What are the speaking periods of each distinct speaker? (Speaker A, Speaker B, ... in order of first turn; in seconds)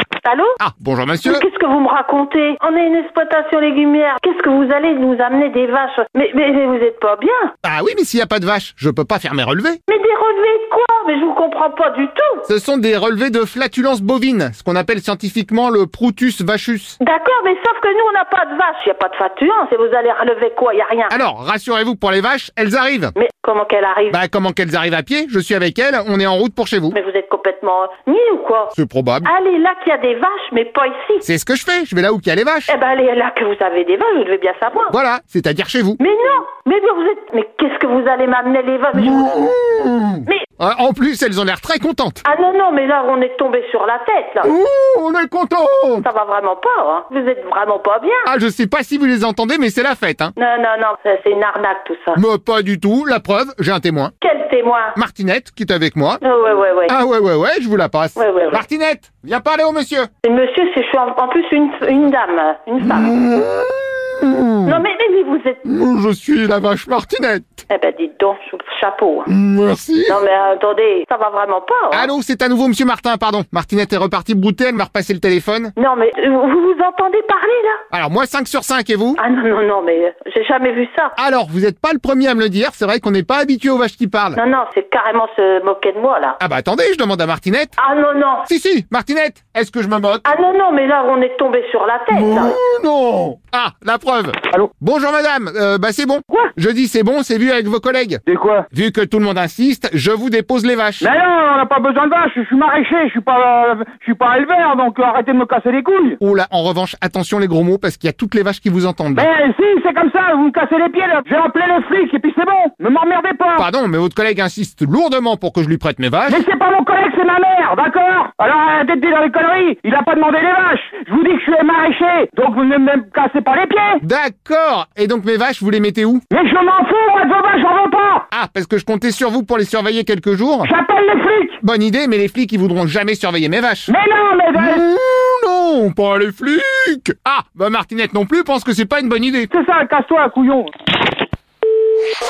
Speaker A: 0.2-0.6, 1.2-7.5, 9.9-12.5, 17.0-21.1, 23.1-24.2, 26.9-31.2, 32.7-34.9, 36.0-39.4, 42.2-44.5, 46.0-48.3, 50.4-52.2, 54.2-55.0, 56.2-57.0, 58.2-58.6, 60.2-63.1, 64.7-65.6, 67.7-69.3, 70.1-72.1, 75.8-77.8, 79.2-81.2, 84.4-86.4, 87.8-88.5, 90.2-92.6
Speaker B: 0.6-1.4, 7.6-9.8, 12.5-17.0, 21.1-23.1, 24.1-27.0, 28.7-29.3, 31.2-32.7, 34.9-36.0, 39.0-42.2, 44.4-46.1, 48.2-50.3, 52.1-54.1, 55.0-56.2, 56.9-60.1, 62.8-64.8, 65.6-67.6, 69.3-70.2, 71.9-75.7, 77.9-79.2, 81.2-84.4, 86.4-87.8, 88.5-90.3, 92.1-101.1, 106.2-109.3, 113.6-116.5, 124.0-126.2, 128.3-130.7, 131.6-133.9, 134.6-139.5
Speaker C: 98.3-98.7, 101.0-106.2, 109.2-113.7, 116.3-124.0, 126.3-128.2, 130.6-131.6, 133.9-134.8, 139.5-140.7